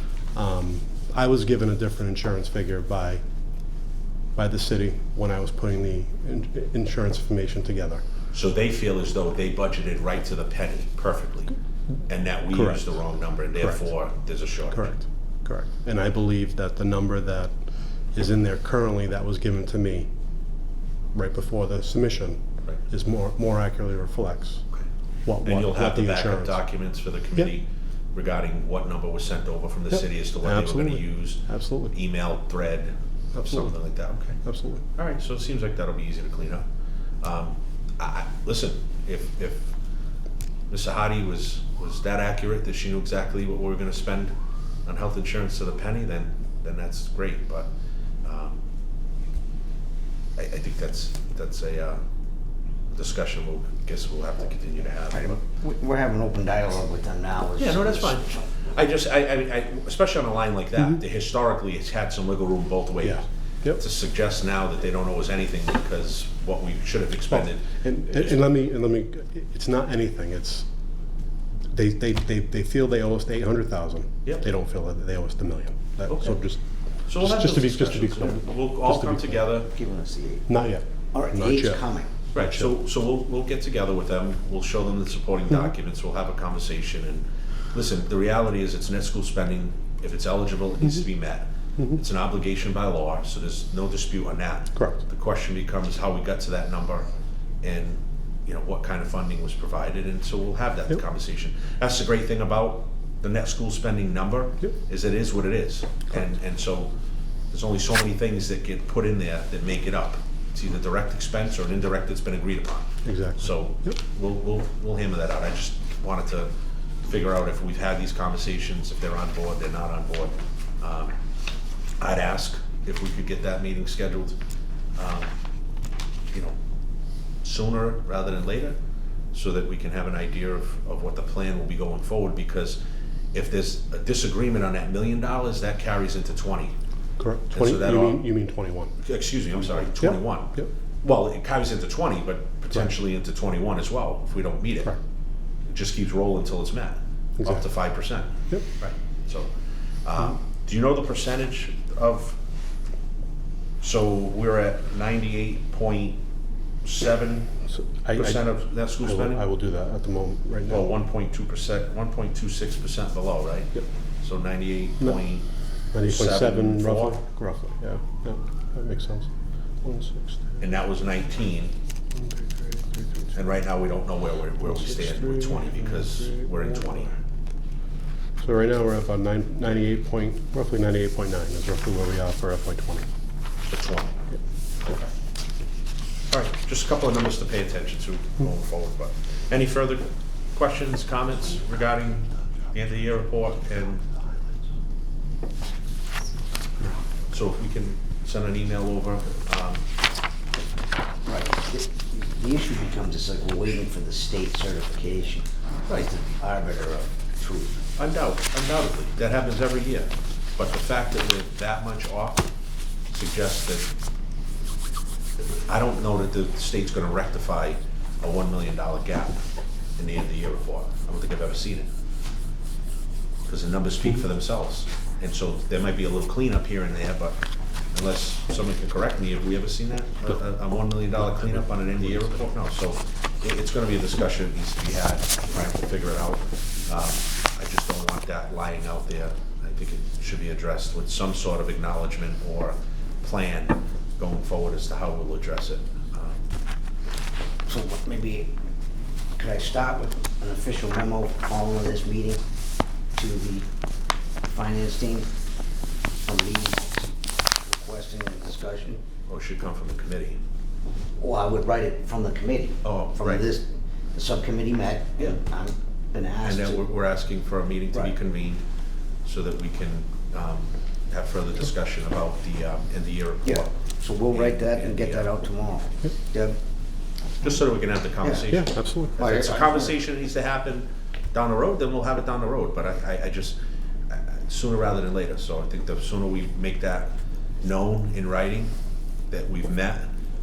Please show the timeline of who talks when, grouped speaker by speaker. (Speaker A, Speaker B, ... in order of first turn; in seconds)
Speaker A: 0.3-3.2, 4.4-8.0, 12.5-12.9, 14.7-17.5, 18.1-20.1, 21.1-24.6, 25.2-26.6, 29.9-31.9, 33.3-33.7, 34.4-34.8, 63.0-63.8, 67.3-70.7, 71.7-76.6, 77.1-79.4, 80.5-82.7, 94.8-95.0, 113.0-114.0, 137.2-138.9, 140.0-140.7, 157.8-158.4, 159.0-160.9, 165.9-169.3, 169.8-170.6, 172.2-173.3, 174.8-176.9, 178.4-183.1, 278.5-279.2
Speaker B: 8.3-11.6, 12.1-14.9, 25.4-34.4, 35.0-36.6, 37.2-39.7, 40.7-44.3, 44.9-47.7, 48.2-48.6, 50.4-52.0, 52.9-55.4, 57.6-68.5, 76.1-76.4, 77.1-79.7, 82.3-97.1, 97.6-106.9, 107.5-116.5, 117.0-121.1, 122.0-124.4, 125.0-125.3, 127.4-128.8, 129.3-132.8, 133.3-136.7, 137.5-138.2, 139.0-145.0, 145.7-149.5, 150.1-152.4, 153.8-156.2, 156.8-157.6, 158.1-159.4, 160.7-165.5, 166.1-167.2, 170.6-171.7, 173.3-177.2, 183.7-184.2, 186.3-194.1, 197.3-199.8, 205.9-206.2, 208.0-212.5, 213.1-213.9, 215.4-219.4, 220.0-221.9, 223.5-227.4, 227.9-246.5, 259.3-260.4, 262.8-263.5, 266.4-268.6, 269.2-275.4, 277.4-283.6, 284.1-288.7, 289.3-290.1
Speaker C: 55.1-58.5, 79.6-80.5, 81.1-82.2, 201.3-207.8, 247.7-248.5, 249.4-252.4, 253.2-253.7, 254.5-255.3, 256.2-259.0, 261.2-266.9, 273.4-276.6, 278.2-278.5, 279.2-280.0